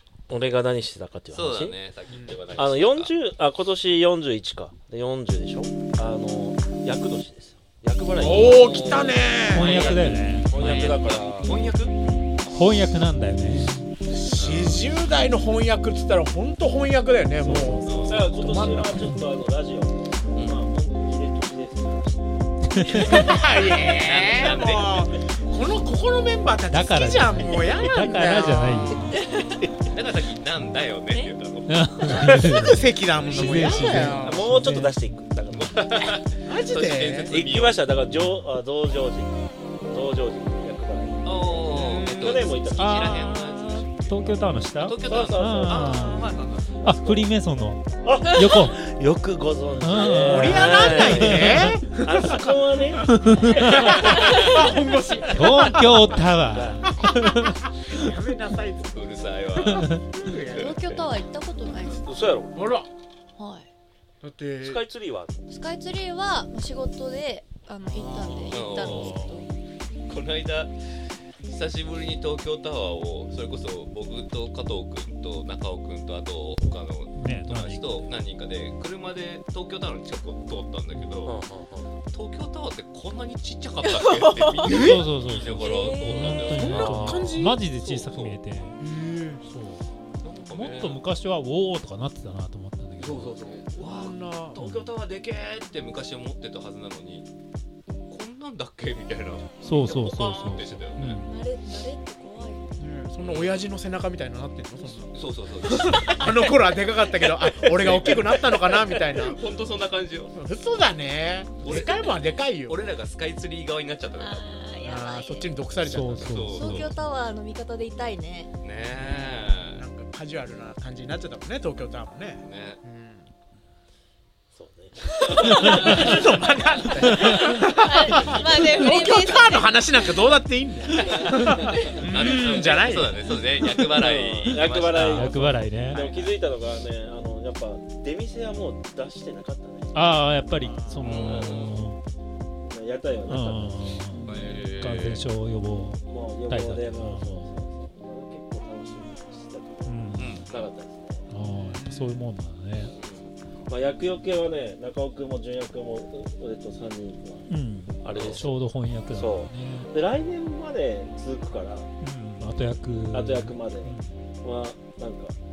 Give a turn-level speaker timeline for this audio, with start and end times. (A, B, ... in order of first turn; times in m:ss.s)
0:00.3-0:01.8 A
0:01.3-0:03.1 B
0:02.1-0:02.4 C
0:02.5-0:11.5 A
0:08.1-0:11.9 B
0:08.2-0:09.8 C
0:09.5-0:10.5 D
0:12.4-0:13.9 D
0:14.1-0:19.0 C
0:14.3-0:14.9 B
0:17.4-0:18.1 D
0:17.8-0:18.3 B
0:17.9-0:23.1 A
0:20.3-0:20.7 B
0:22.7-0:23.4 D
0:22.9-0:29.0 C
0:23.9-0:25.1 B
0:26.7-0:29.2 D
0:29.1-0:29.6 E
0:29.9-0:34.4 B
0:31.1-0:31.3 E
0:31.7-0:35.0 D
0:32.1-0:34.6 C
0:33.6-0:36.1 A
0:35.5-0:37.8 B
0:36.4-0:37.4 C
0:37.3-0:39.4 A
0:39.9-0:43.4 A
0:41.2-0:46.8 B
0:41.7-0:42.3 C
0:42.7-0:48.8 D
0:45.0-0:46.3 A
0:46.8-0:47.3 A
0:48.0-0:54.6 A
0:49.8-0:51.8 D
0:50.2-0:52.7 C
0:53.0-0:54.1 D
0:53.3-0:56.2 C
0:54.0-0:54.7 E
0:55.3-0:57.6 D
0:56.5-0:56.9 A
0:56.9-0:59.0 C
0:58.9-1:01.2 B
0:59.6-1:00.0 D
1:00.1-1:00.7 C
1:00.5-1:02.1 E
1:02.0-1:02.5 A
1:02.5-1:02.9 C
1:03.4-1:03.7 E
1:04.2-1:04.8 C
1:04.6-1:05.5 A
1:05.5-1:09.5 E
1:07.9-1:08.4 C
1:08.1-1:09.2 B
1:08.8-1:09.5 D
1:10.1-1:10.7 B
1:11.4-1:21.4 B
1:17.2-1:17.9 D
1:21.2-1:21.9 A
1:22.1-1:28.4 B
1:23.8-1:24.9 E
1:24.6-1:25.0 C
1:24.6-1:28.8 D
1:25.4-1:26.7 E
1:26.5-1:27.6 C
1:28.8-1:29.4 C
1:29.5-1:29.8 D
1:30.2-1:31.0 B
1:30.5-1:33.4 D
1:33.0-1:37.3 B
1:33.8-1:34.6 C
1:34.6-1:34.8 D
1:38.1-1:41.2 B
1:39.6-1:41.4 D
1:41.2-1:42.7 E
1:42.8-1:49.4 C
1:43.2-1:43.7 B
1:45.1-1:46.4 B
1:47.6-1:50.3 B
1:50.4-1:52.8 C
1:51.6-1:54.6 B
1:54.1-1:55.6 E
1:54.8-1:56.5 C
1:55.8-1:57.0 D
1:56.2-1:56.9 B
1:56.6-1:58.5 E
1:58.6-1:59.8 B
1:58.8-2:03.3 C
2:02.4-2:02.8 B
2:04.5-2:07.5 A
2:05.5-2:06.0 E
2:05.5-2:05.8 D
2:05.6-2:13.2 C
2:07.1-2:10.2 E
2:08.1-2:08.4 A
2:10.9-2:12.0 E
2:12.1-2:16.3 B
2:12.2-2:12.7 A
2:13.6-2:20.2 A
2:14.5-2:16.0 D
2:19.9-2:22.0 D
2:20.6-2:21.0 C
2:21.0-2:21.7 B
2:21.0-2:21.7 A
2:22.6-2:23.8 A
2:23.3-2:27.5 D
2:24.2-2:25.2 B
2:26.1-2:31.3 A
2:29.8-2:30.4 D
2:30.2-2:30.7 B
2:31.3-2:32.9 D
2:31.6-2:32.2 C
2:32.9-2:33.4 B
2:33.7-2:37.5 A
2:37.5-2:39.9 D
2:38.0-2:38.6 A
2:38.1-2:38.5 B
2:39.1-2:41.9 A
2:42.0-2:44.2 D
2:43.1-2:45.3 A